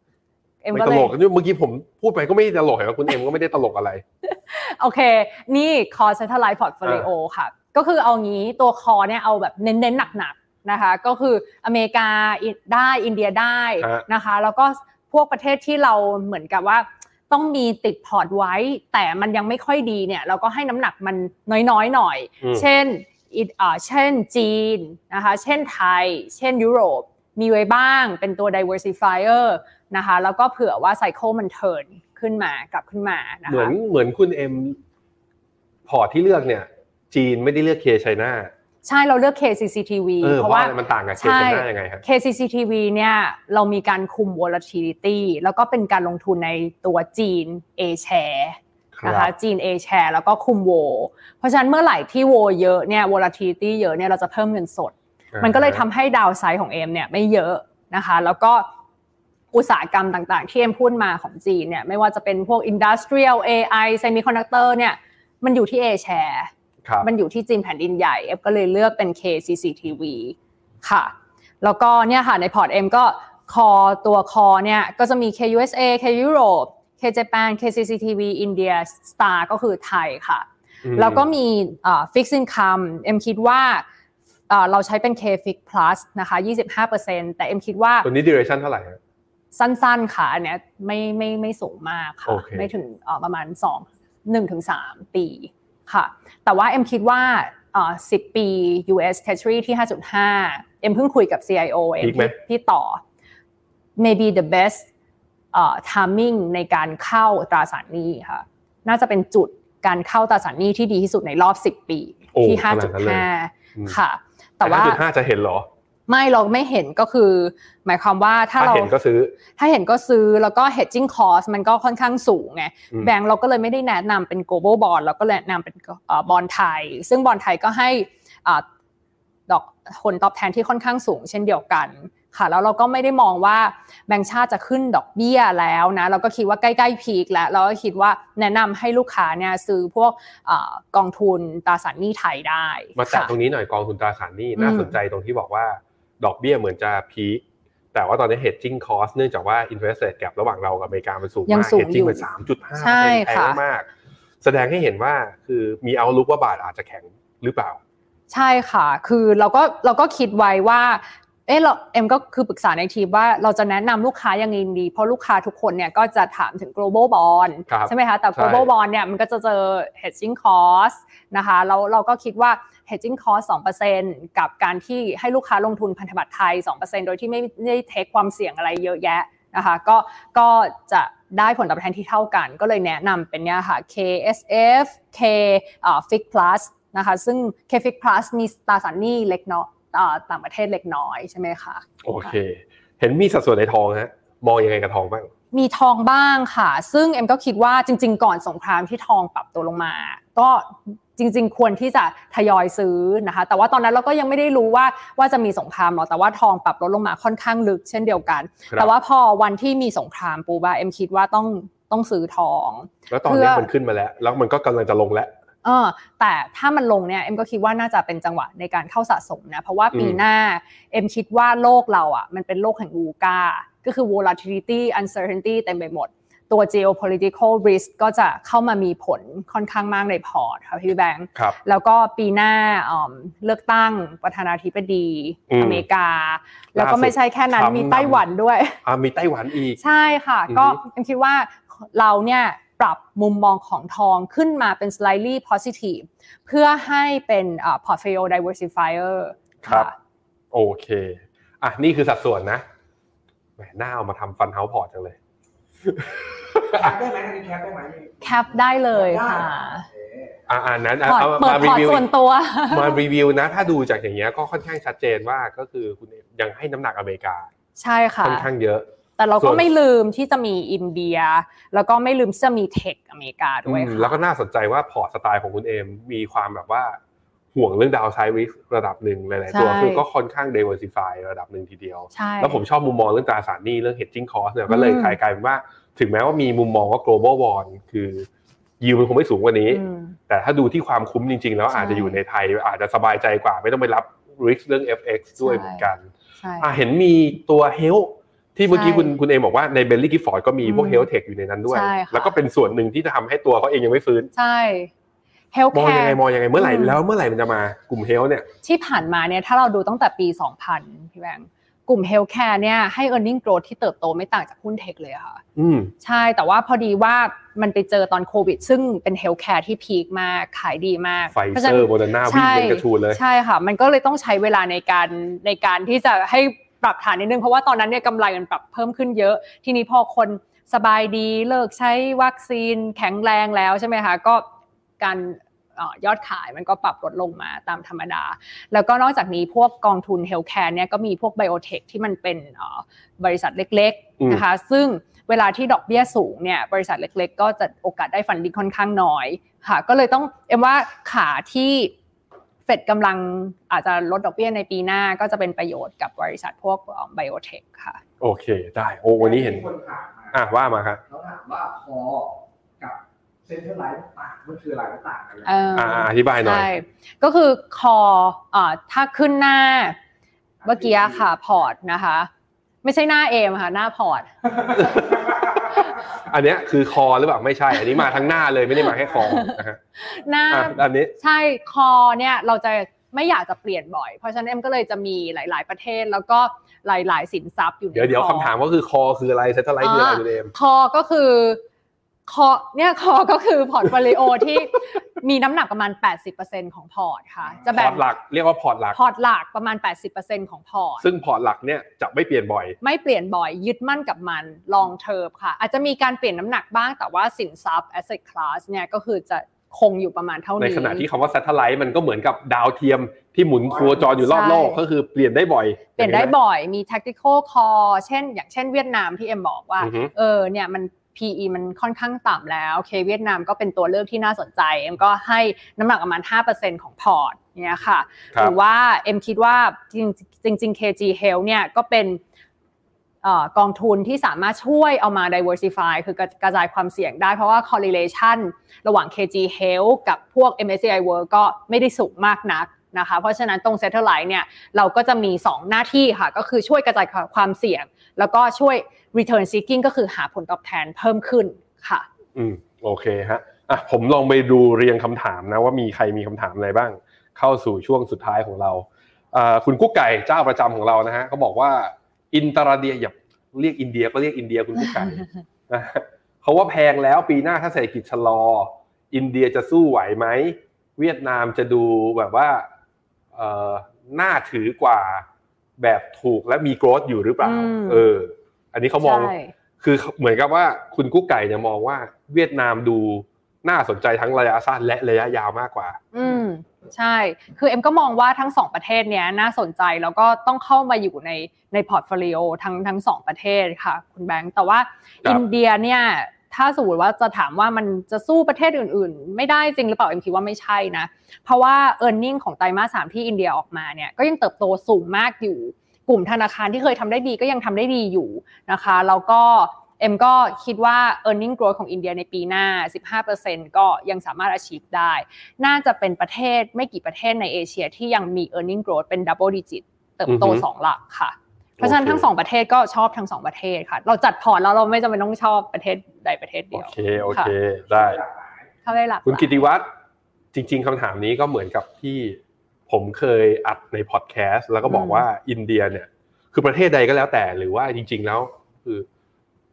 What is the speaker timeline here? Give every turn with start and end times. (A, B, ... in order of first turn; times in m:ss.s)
0:00.6-0:01.1 A
0:00.7-0:04.0 B
0:04.2-0:33.7 A
0:33.5-0:34.8 B
0:35.9-0:38.5 B
0:38.8-0:58.7 A
0:40.2-0:42.0 B
0:48.9-0:49.3 B
0:55.3-0:55.8 B
0:59.5-1:06.5 A
1:07.0-1:23.8 A
1:20.8-1:21.2 B
1:24.5-1:28.1 A
1:28.0-1:29.0 B
1:29.5-1:43.0 A
1:32.3-1:32.7 B
1:42.0-1:42.3 B
1:44.0-1:44.9 A
1:45.5-1:55.0 A
1:52.3-1:53.9 B
1:54.6-1:55.7 B
1:56.1-1:58.9 A
1:58.6-1:59.4 B
1:59.6-2:08.6 A
2:09.5-2:23.3 A
2:23.0-2:27.4 B
2:24.6-2:24.9 A
2:27.9-2:33.9 B
2:31.5-2:32.2 A
2:32.8-2:33.6 A
2:34.4-2:37.8 B
2:38.3-3:11.8 A
2:47.7-2:48.7 B
3:12.0-3:15.3 B
3:15.5-3:33.7 A
3:33.1-3:35.3 B
3:35.6-3:58.8 A
3:39.9-3:40.2 B
3:55.5-3:55.8 B
3:56.8-3:58.2 B
3:58.8-3:59.8 B
3:59.8-4:09.9 A
4:00.5-4:00.8 B
4:09.6-4:09.9 B
4:10.5-4:12.6 B
4:13.6-4:15.2 B
4:15.8-4:16.9 B
4:16.7-4:20.4 C
4:18.2-4:19.9 A
4:20.5-4:22.1 B
4:21.0-4:23.0 A
4:22.7-4:27.5 B
4:27.8-4:28.5 A
4:28.2-4:28.8 B
4:29.2-4:34.2 A
4:29.4-4:29.7 B
4:33.6-4:37.0 B
4:37.5-4:48.3 B
4:39.5-4:40.0 A
4:42.1-4:42.6 A
4:44.7-4:45.2 A
4:48.8-5:04.3 B
4:49.7-4:50.2 A
4:51.7-4:52.2 A
4:55.4-4:55.9 A
4:56.4-4:56.7 A
4:58.7-4:59.1 A
5:00.6-5:01.1 A
5:01.7-5:02.3 A
5:04.3-5:04.9 A
5:05.5-5:07.0 A
5:05.7-5:08.5 B
5:08.6-5:15.4 A
5:15.6-5:15.9 B
5:16.0-5:34.4 A
5:21.3-5:23.2 B
5:35.0-5:51.9 A
5:52.7-5:58.0 A
5:58.2-5:59.6 B
5:59.2-6:00.4 C
6:00.3-6:01.0 B
6:01.1-6:05.6 C
6:05.4-6:10.0 A
6:05.8-6:06.7 B
6:10.6-6:11.2 C
6:10.6-6:12.3 A
6:12.8-6:14.3 A
6:14.6-6:15.5 C
6:14.7-6:15.3 B
6:16.1-6:19.8 B
6:19.1-6:28.5 A
6:20.5-6:21.1 B
6:27.9-6:30.5 B
6:29.8-6:31.6 A
6:32.3-6:38.0 A
6:37.6-6:39.0 B
6:38.9-6:41.0 A
6:41.0-6:42.8 B
6:42.8-6:51.0 A
6:50.6-6:56.3 B
6:54.0-6:54.8 A
6:56.0-7:12.2 A
6:59.8-7:00.1 B
7:13.2-7:32.0 A
7:32.3-7:52.7 B
7:53.3-7:55.2 B
7:55.8-8:06.0 B
7:57.4-7:58.1 A
7:59.0-7:59.5 A
8:06.1-8:47.5 A
8:40.2-8:40.6 B
8:41.8-8:42.3 B
8:46.7-8:48.2 B
8:47.9-8:48.6 C
8:48.8-8:49.6 A
8:49.2-8:49.9 B
8:50.5-8:59.1 B
8:54.8-8:55.2 A